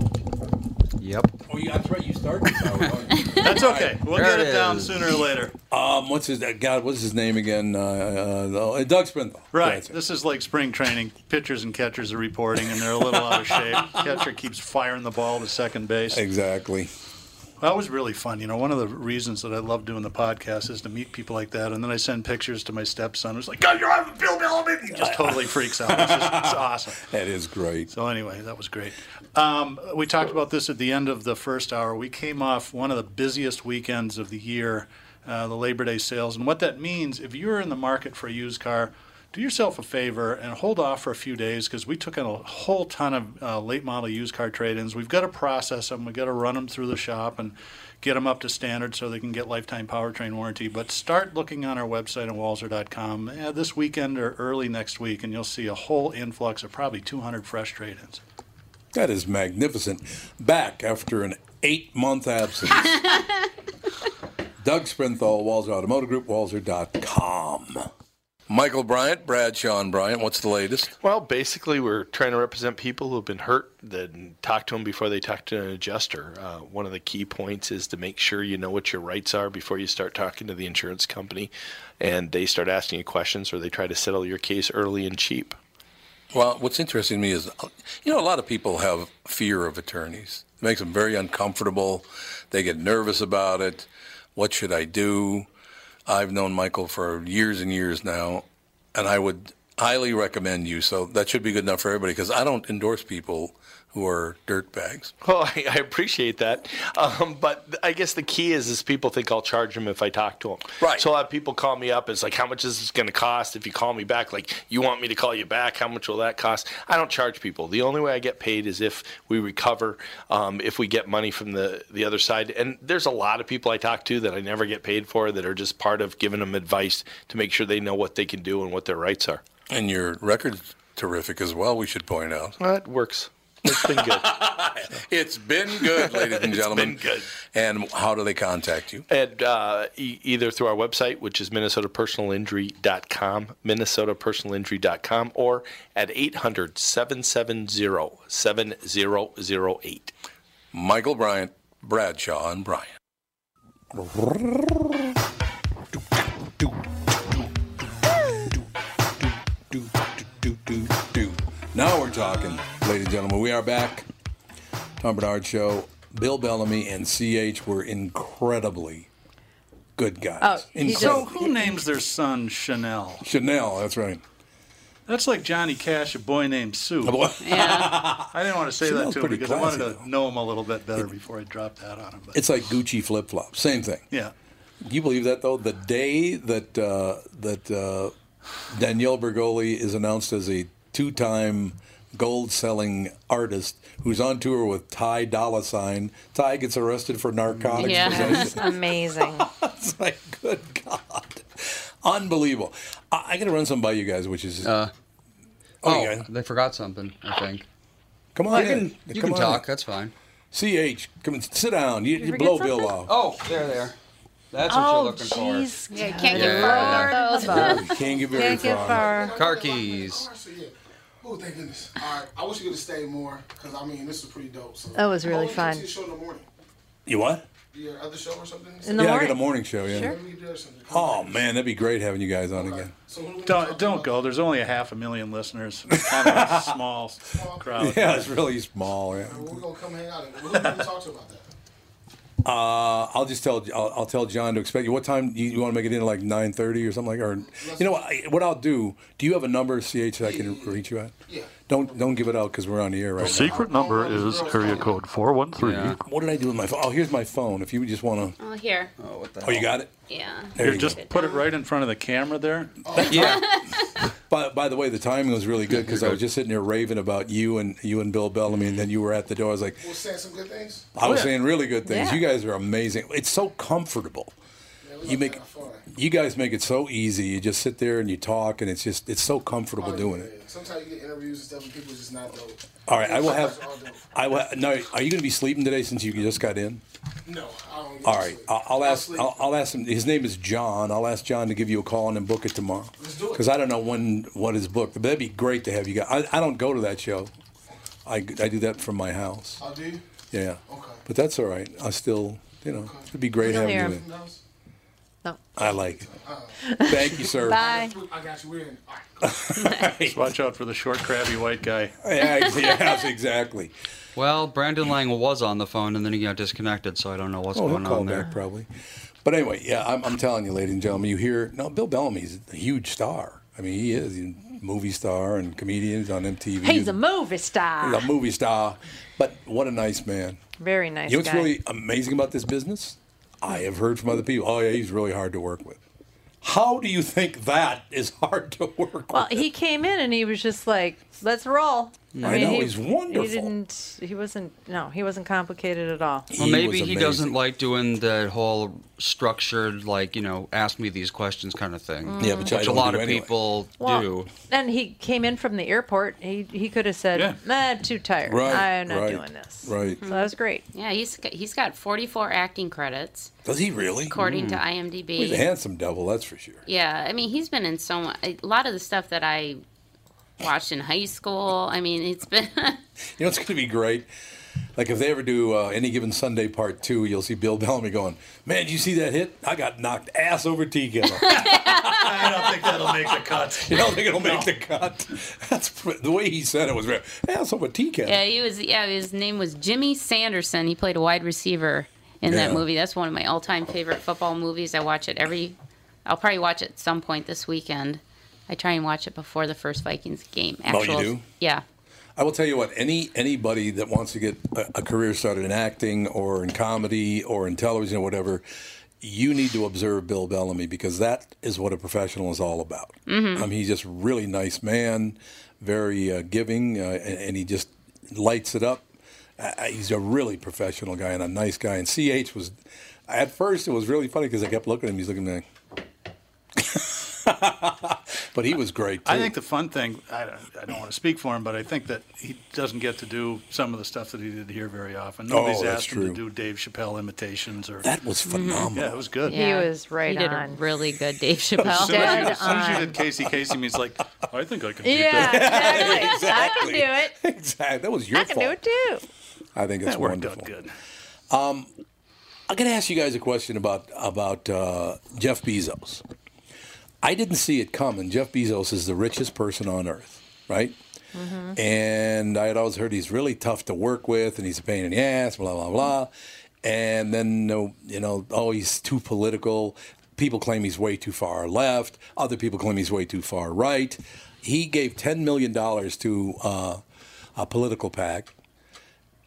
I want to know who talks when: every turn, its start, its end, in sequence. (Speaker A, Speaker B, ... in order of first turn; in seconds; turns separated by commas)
Speaker A: 1.0-1.3, Speaker B: 1.5-4.0, Speaker C: 3.4-5.5, Speaker A: 4.1-5.1, Speaker B: 5.7-9.9, Speaker C: 9.5-16.2, Speaker B: 13.1-14.0, Speaker B: 16.1-16.9, Speaker C: 17.6-27.0, Speaker B: 24.9-27.9, Speaker C: 27.9-58.2, Speaker B: 58.9-63.0, Speaker B: 64.6-67.9, Speaker B: 68.5-71.0, Speaker D: 71.0-85.6, Speaker B: 86.3-95.5, Speaker B: 96.1-105.1, Speaker D: 105.2-129.4, Speaker B: 129.7-132.6, Speaker D: 132.6-134.6, Speaker B: 133.7-137.0, Speaker D: 135.8-137.3, Speaker B: 137.5-139.1, Speaker D: 139.1-150.1, Speaker B: 150.7-152.9, Speaker B: 153.9-155.1, Speaker B: 159.2-164.1, Speaker B: 165.0-169.1, Speaker B: 170.0-171.3, Speaker E: 170.4-171.8, Speaker C: 170.9-173.2, Speaker B: 173.2-174.2, Speaker C: 175.1-177.3, Speaker B: 177.0-178.3, Speaker F: 177.4-178.0, Speaker C: 178.3-182.4, Speaker B: 178.8-180.1, Speaker B: 182.3-184.1, Speaker B: 184.8-188.2, Speaker B: 188.7-198.7, Speaker A: 197.5-198.2, Speaker F: 197.8-198.8, Speaker E: 197.9-199.5, Speaker B: 199.3-204.7, Speaker A: 204.6-204.9, Speaker B: 205.8-206.3, Speaker A: 205.8-207.7, Speaker B: 208.3-209.7, Speaker A: 208.5-210.1, Speaker B: 210.5-213.1, Speaker E: 212.2-212.9, Speaker A: 213.1-213.9, Speaker A: 214.5-215.7, Speaker E: 214.7-219.4, Speaker F: 215.9-217.9, Speaker A: 216.3-217.4, Speaker B: 217.5-219.1, Speaker G: 218.1-226.5, Speaker A: 219.3-220.3, Speaker E: 225.0-225.9, Speaker B: 227.1-227.4, Speaker G: 227.7-229.2, Speaker E: 228.9-230.2, Speaker B: 229.0-230.2, Speaker G: 229.9-231.4, Speaker B: 230.9-232.9, Speaker G: 232.6-234.1, Speaker C: 233.4-238.3, Speaker B: 235.9-236.7, Speaker G: 237.3-237.8, Speaker B: 237.8-239.6, Speaker G: 239.2-241.5, Speaker B: 242.4-251.2, Speaker G: 247.4-248.0, Speaker G: 250.2-252.0, Speaker B: 251.7-253.6, Speaker C: 253.2-256.0, Speaker G: 253.2-255.0, Speaker A: 255.6-256.0, Speaker B: 256.0-258.4, Speaker F: 258.4-258.9, Speaker A: 259.0-259.7, Speaker B: 259.4-259.9, Speaker F: 260.1-261.4, Speaker B: 260.6-261.0, Speaker C: 260.6-262.8, Speaker G: 262.9-263.4, Speaker B: 262.9-263.6, Speaker A: 263.1-263.5, Speaker F: 263.2-264.0, Speaker B: 264.3-269.9, Speaker A: 265.7-266.2, Speaker A: 268.6-268.8, Speaker G: 269.8-270.9, Speaker B: 270.9-274.3, Speaker C: 271.0-271.3, Speaker E: 271.9-272.2, Speaker G: 274.8-275.8, Speaker B: 275.0-280.3, Speaker G: 279.8-284.4, Speaker B: 282.9-286.8, Speaker G: 287.3-289.4, Speaker B: 288.0-297.3, Speaker G: 293.0-293.4, Speaker B: 298.1-299.6, Speaker G: 299.6-300.0, Speaker B: 300.3-304.0, Speaker G: 300.7-301.0, Speaker G: 302.8-304.4, Speaker E: 303.4-304.0, Speaker B: 305.6-306.1, Speaker G: 306.0-306.6, Speaker E: 306.6-308.0, Speaker B: 306.9-307.6, Speaker G: 307.4-309.6, Speaker B: 309.2-310.2, Speaker C: 310.1-311.9, Speaker B: 312.0-313.7, Speaker A: 314.2-318.3, Speaker B: 317.5-318.7, Speaker B: 319.2-326.9, Speaker E: 326.6-328.1, Speaker B: 327.8-330.4, Speaker E: 330.6-331.6, Speaker B: 331.1-335.8, Speaker B: 336.4-339.5, Speaker E: 339.1-346.3, Speaker A: 342.1-342.6, Speaker B: 342.2-343.5, Speaker B: 346.3-347.3, Speaker A: 346.4-354.3, Speaker E: 352.1-352.5, Speaker B: 352.2-353.3, Speaker E: 353.8-360.6, Speaker C: 357.1-357.4, Speaker B: 358.3-360.0, Speaker F: 360.0-363.3, Speaker B: 363.4-364.1, Speaker F: 364.1-365.5, Speaker A: 364.2-364.6, Speaker B: 365.2-366.6, Speaker F: 366.7-369.6, Speaker F: 370.4-372.8, Speaker B: 373.2-374.1, Speaker B: 374.8-388.2, Speaker F: 381.2-382.0, Speaker C: 381.8-384.5, Speaker F: 388.1-401.6, Speaker B: 392.3-392.6, Speaker B: 400.7-401.2, Speaker B: 402.2-408.4, Speaker B: 409.0-422.5, Speaker F: 413.1-413.5, Speaker B: 423.1-425.4, Speaker B: 426.6-429.3, Speaker C: 429.1-437.9, Speaker B: 435.3-436.2, Speaker B: 437.8-439.0, Speaker F: 438.3-438.7, Speaker C: 438.8-439.4, Speaker F: 439.3-442.4, Speaker E: 439.3-440.6, Speaker C: 441.6-446.2, Speaker E: 441.6-443.0, Speaker B: 442.2-443.0, Speaker E: 444.8-447.1, Speaker B: 445.1-448.6, Speaker E: 448.1-449.1, Speaker B: 449.6-450.5, Speaker C: 449.9-450.7, Speaker B: 451.3-451.7, Speaker B: 452.5-456.0, Speaker B: 457.0-460.8, Speaker E: 461.1-461.6, Speaker B: 461.6-466.1, Speaker B: 466.6-476.8, Speaker B: 477.4-478.3